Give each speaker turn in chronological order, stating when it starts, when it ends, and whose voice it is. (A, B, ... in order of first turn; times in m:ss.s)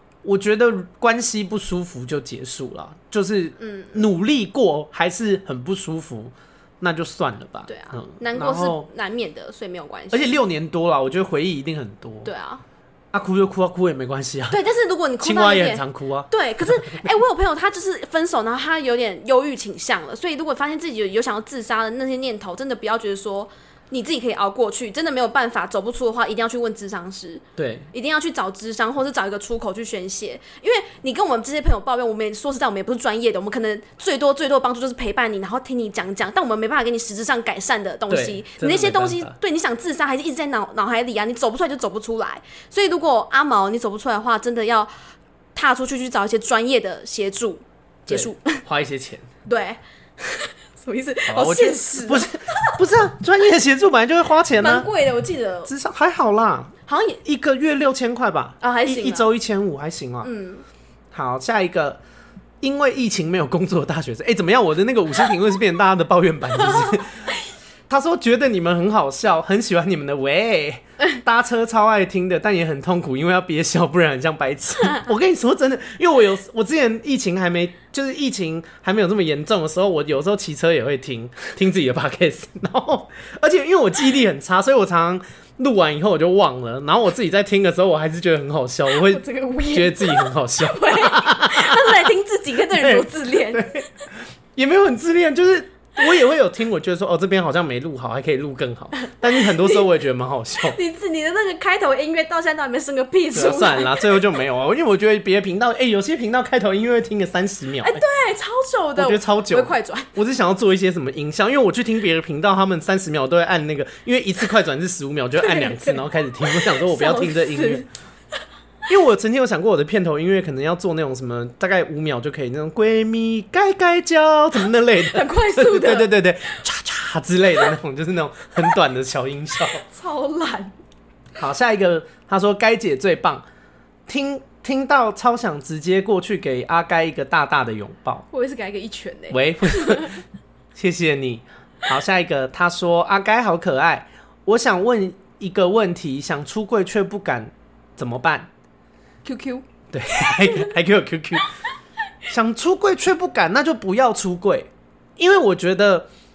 0:00.2-0:08.9 A
0:03.6-0:04.1 B
0:07.7-0:10.3 B
0:10.1-0:12.3 A
0:12.2-0:12.6 B
0:13.1-0:14.6 A
0:14.5-0:44.9 B
0:15.2-0:17.1 A
0:27.6-0:27.9 A
0:38.1-0:39.3 A
0:45.5-0:48.6 B
0:48.1-0:49.3 A
0:49.4-0:52.8 B
0:51.3-0:54.9 A
0:54.6-0:55.7 B
0:55.6-1:00.3 A
0:56.9-0:57.2 B
0:58.6-0:59.3 B
1:00.2-1:00.6 B
1:01.1-1:02.0 A
1:02.6-1:07.3 A
1:06.6-1:06.9 B
1:07.9-1:32.1 A
1:28.9-1:33.8 B
1:32.7-1:33.9 A
1:34.6-1:40.8 A
1:39.1-1:39.8 B
1:40.6-1:44.2 B
1:43.3-1:48.0 A
1:47.8-1:50.1 B
1:49.0-1:57.8 A
1:55.4-1:57.8 B
1:58.9-2:09.8 A
2:05.1-2:06.1 B
2:09.7-2:10.8 B
2:11.4-2:13.4 A
2:14.1-2:18.2 A
2:18.3-2:20.2 B
2:19.3-2:20.2 A
2:20.7-2:28.5 A
2:29.2-2:30.7 B
2:29.9-2:31.5 A
2:32.2-2:36.1 A